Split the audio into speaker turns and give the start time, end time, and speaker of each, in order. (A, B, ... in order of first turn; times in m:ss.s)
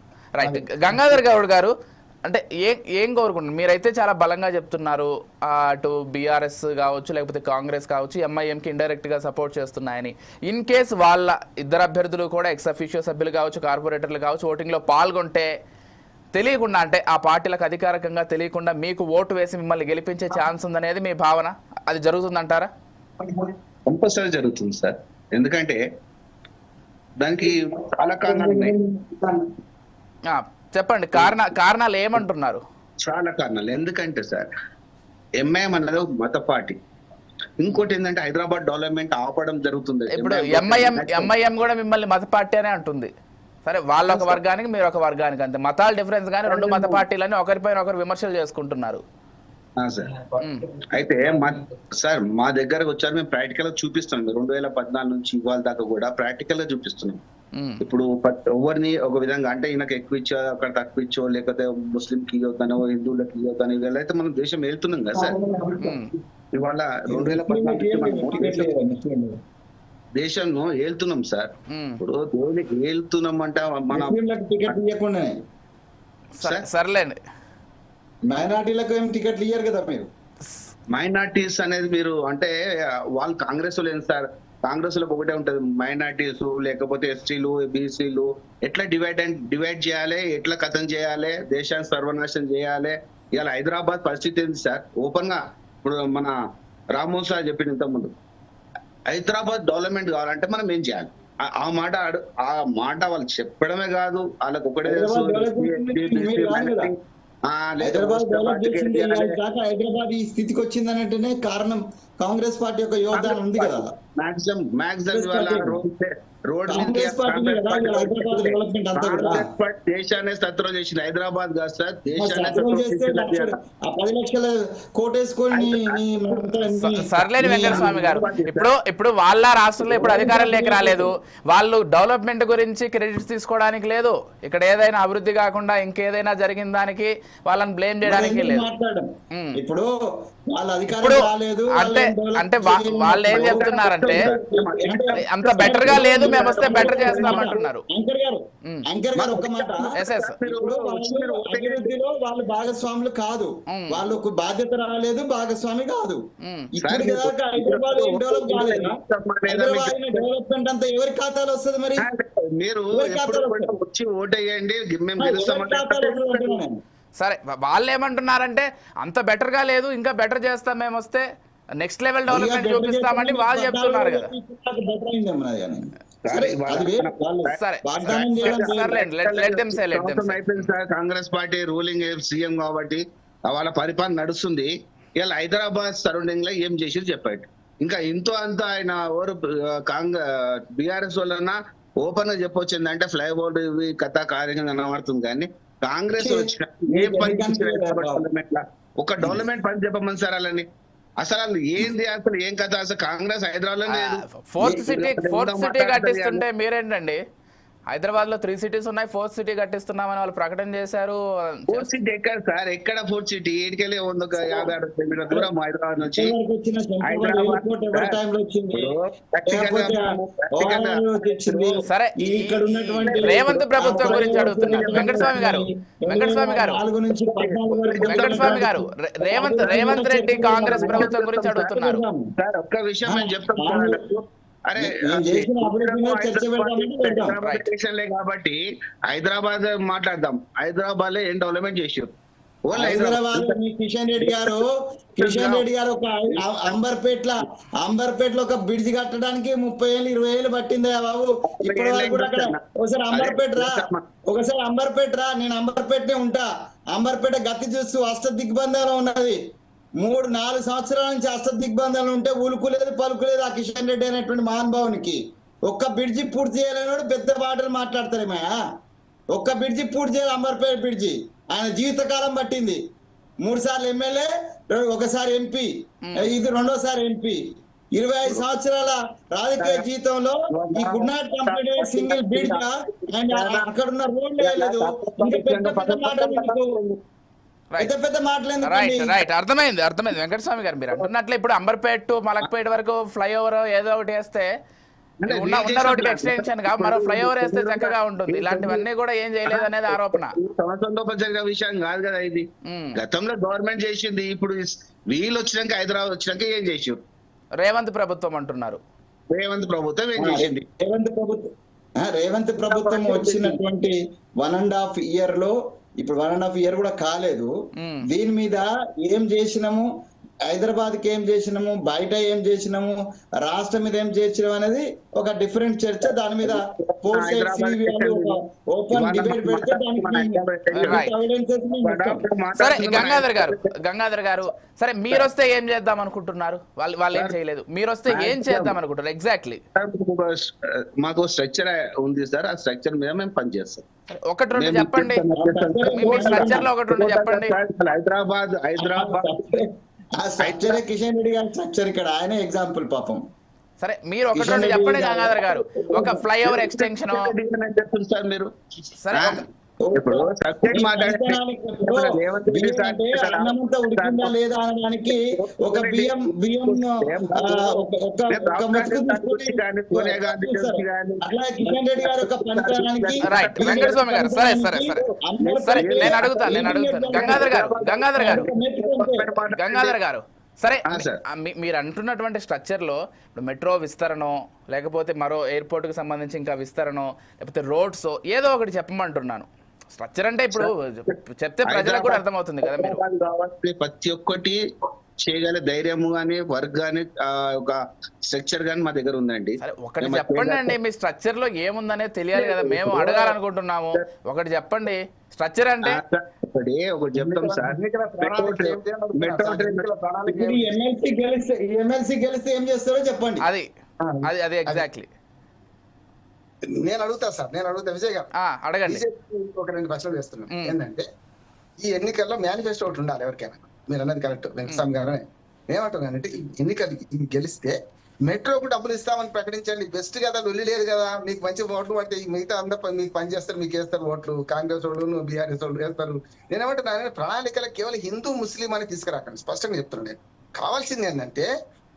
0:00.4-0:01.7 A
0:00.4-0:01.2 B
0:02.2-0:15.5 A
0:16.3-0:22.7 A
0:23.2-0:25.8 C
0:27.2-0:28.8 C
0:27.4-0:29.4 B
0:30.3-0:32.6 A
0:33.0-0:34.5 C
0:35.4-0:36.8 C
0:37.6-0:41.3 C
0:40.1-0:43.1 A
0:43.7-0:49.0 A
0:44.1-0:44.4 C
0:46.5-0:47.0 C
0:49.8-0:50.1 C
0:50.1-0:51.7 B
0:50.9-0:57.2 C
0:57.6-0:57.8 A
0:57.8-1:05.4 C
1:05.1-1:06.0 B
1:05.8-1:06.1 A
1:06.5-1:08.7 C
1:07.1-1:09.4 D
1:10.1-1:14.2 C
1:11.7-1:12.0 A
1:13.9-1:15.3 D
1:16.4-1:17.2 A
1:18.3-1:20.1 D
1:20.9-1:22.5 C
1:23.2-1:36.3 C
1:36.9-1:38.1 C
1:39.1-1:49.4 C
1:44.8-1:46.9 D
1:47.8-1:53.9 D
1:53.1-2:03.6 C
1:55.1-1:55.8 D
1:56.7-1:59.4 D
2:02.2-2:08.2 D
2:05.5-2:06.6 C
2:06.8-2:18.7 A
2:07.6-2:08.7 C
2:09.8-2:11.1 D
2:18.0-2:19.9 D
2:20.5-2:29.9 D
2:21.0-2:24.3 A
2:23.3-2:27.6 C
2:25.1-2:27.8 A
2:29.2-2:31.9 C
2:30.0-2:30.4 A
2:30.4-2:36.2 D
2:33.7-2:34.0 A
2:36.4-2:36.7 A
2:36.7-2:39.0 D
2:36.8-2:40.3 C
2:39.5-2:42.1 D
2:42.0-2:46.6 C
2:42.9-2:43.7 D
2:45.2-2:46.8 D
2:47.2-2:51.2 A
2:51.8-2:54.3 A
2:52.3-2:59.0 D
2:56.2-2:57.5 C
2:57.6-3:00.7 A
2:58.1-3:10.2 C
3:10.7-3:20.7 C
3:16.2-3:18.2 D
3:21.2-3:26.4 C
3:23.9-3:27.2 A
3:27.9-3:31.9 A
3:31.7-3:36.4 C
3:34.3-3:34.7 D
3:36.1-3:39.0 D
3:37.0-3:38.2 C
3:38.7-3:41.8 C
3:39.5-3:40.0 D
3:40.5-3:51.2 D
3:41.8-3:46.8 A
3:43.0-3:45.4 C
3:47.1-3:48.8 C
3:48.0-3:52.0 A
3:49.3-3:51.7 C
3:51.7-3:52.3 D
3:52.4-4:02.1 C
3:53.1-3:54.0 D
3:54.8-3:57.3 D
3:57.4-3:57.7 A
4:02.7-4:03.6 C
4:02.7-4:13.7 D
4:04.2-4:04.6 C
4:05.2-4:05.7 C
4:06.3-4:06.6 C
4:11.5-4:12.6 C
4:13.1-4:14.0 C
4:14.3-4:19.4 D
4:20.0-4:28.5 D
4:29.3-4:32.8 D
4:33.4-4:37.4 D
4:36.0-4:36.3 A
4:38.0-4:46.8 D
4:39.6-4:39.9 C
4:40.5-4:43.7 C
4:44.4-4:47.0 C
4:47.8-4:49.2 D
4:48.6-4:54.5 A
4:55.2-4:58.9 C
4:55.3-5:00.3 A
4:59.5-5:07.0 C
5:02.7-5:03.0 A
5:07.6-5:08.8 A
5:09.3-5:10.6 C
5:10.2-5:11.5 D
5:12.0-5:17.5 D
5:12.7-5:13.6 C
5:17.8-5:18.0 A
5:18.1-5:19.9 D
5:20.5-5:32.2 D
5:26.1-5:28.4 C
5:28.9-5:31.1 C
5:30.7-5:31.1 A
5:31.8-5:33.7 C
5:32.5-5:39.6 A
5:38.1-5:38.8 C
5:39.8-5:43.8 C
5:44.3-5:45.2 A
5:44.6-5:49.6 C
5:45.4-5:46.7 D
5:45.9-5:47.6 A
5:48.8-5:53.2 D
5:50.4-5:50.8 C
5:53.8-5:57.3 A
5:54.3-5:56.2 D
5:56.4-5:58.5 C
5:59.0-5:59.4 A
5:59.1-5:59.4 C
5:59.8-6:17.6 D
6:00.0-6:04.3 C
6:05.3-6:14.1 C
6:13.2-6:15.0 A
6:15.4-6:20.0 C
6:15.6-6:18.5 A
6:18.2-6:19.3 D
6:19.5-6:33.0 A
6:20.9-6:21.2 C
6:31.6-6:34.6 C
6:35.2-6:40.8 C
6:39.6-6:46.0 A
6:42.3-6:43.4 C
6:45.9-6:49.9 C
6:47.2-6:50.7 B
6:50.3-6:53.5 D
6:54.0-6:54.8 B
6:54.2-6:55.1 A
6:56.8-6:58.3 B
6:58.4-6:59.0 A
6:58.9-7:01.1 B
7:01.8-7:21.5 B